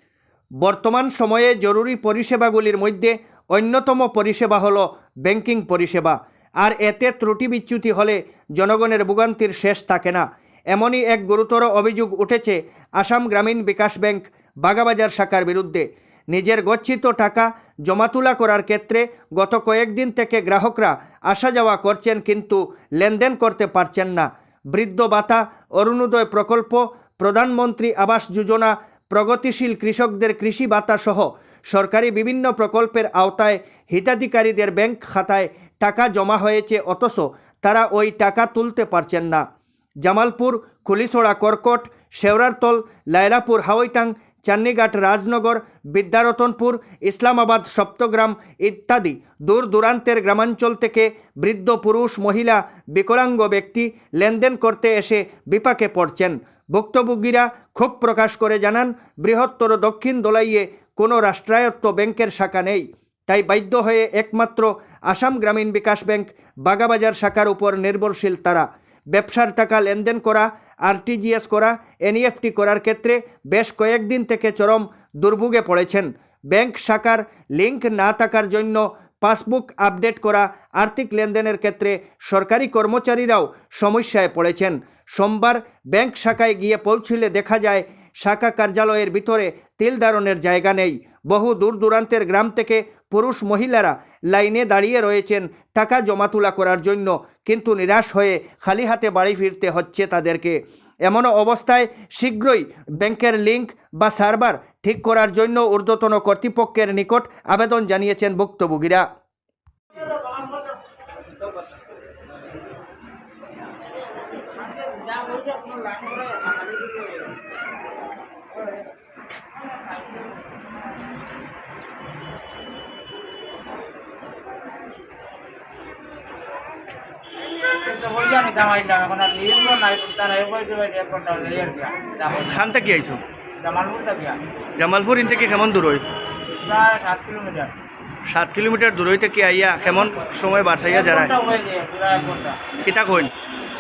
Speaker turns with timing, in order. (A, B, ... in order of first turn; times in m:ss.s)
0:00.6-0:39.4 A
0:40.0-1:49.1 A
2:07.8-2:12.7 B
2:12.5-2:13.2 A
2:13.6-2:14.4 B
2:14.8-2:16.0 A
2:16.6-2:17.7 B
2:18.3-2:21.3 A
2:20.8-2:22.6 B
2:22.8-2:23.3 A